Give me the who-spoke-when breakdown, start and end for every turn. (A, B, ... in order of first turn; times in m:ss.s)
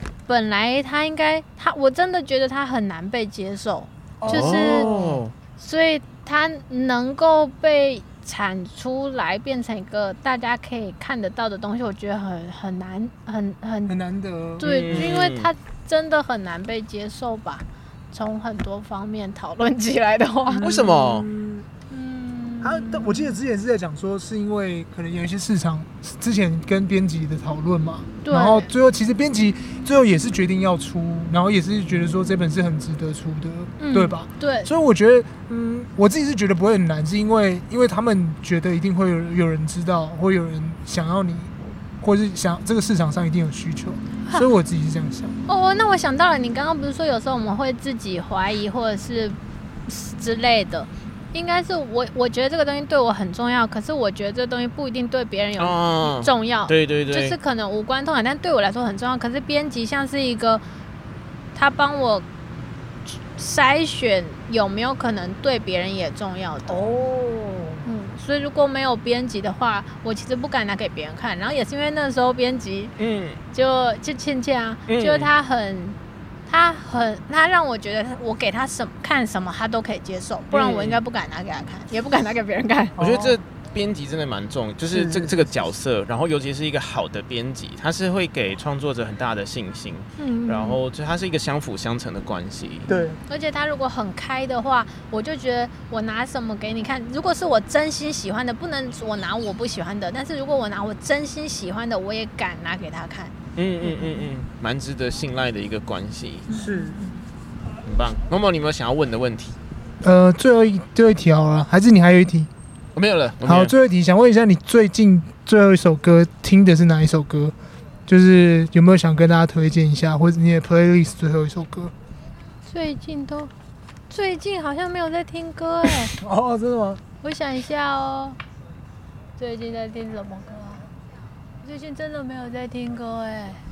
0:00.3-0:05.0 A
0:04.2-0:05.2 B
0:04.2-0:05.3 C
0:05.6-0:14.0 A
0:13.9-0:15.1 B
0:14.6-0:20.7 A
0:14.6-0:15.5 C
0:20.5-0:21.7 B
0:20.6-0:21.3 C
0:21.9-0:23.4 A
0:22.6-0:45.4 B
0:28.2-0:28.7 A
0:33.8-0:34.7 A
0:45.5-1:00.6 A
0:55.6-0:57.4 C
1:01.6-1:02.2 A
1:03.1-1:07.0 A
1:06.7-1:07.9 B
1:07.8-1:12.9 A
1:13.0-1:13.4 C
1:13.5-1:23.0 A
1:14.9-1:15.3 C
1:20.5-1:21.0 C
1:23.0-1:23.4 B
1:23.0-1:32.9 C
1:24.9-1:25.5 B
1:30.2-1:30.8 A
1:32.9-1:33.2 B
1:33.3-1:43.3 A
1:43.6-1:46.5 C
1:46.5-1:47.0 B
1:46.5-1:47.1 A
1:47.9-1:49.6 C
1:50.0-1:52.5 B
1:53.0-1:53.7 C
1:53.4-1:57.5 B
1:58.1-2:01.9 B
2:02.7-2:03.5 A
2:04.1-2:06.1 A
2:06.2-2:07.0 B
2:07.2-2:08.4 A
2:09.4-2:10.9 A
2:11.6-2:13.6 A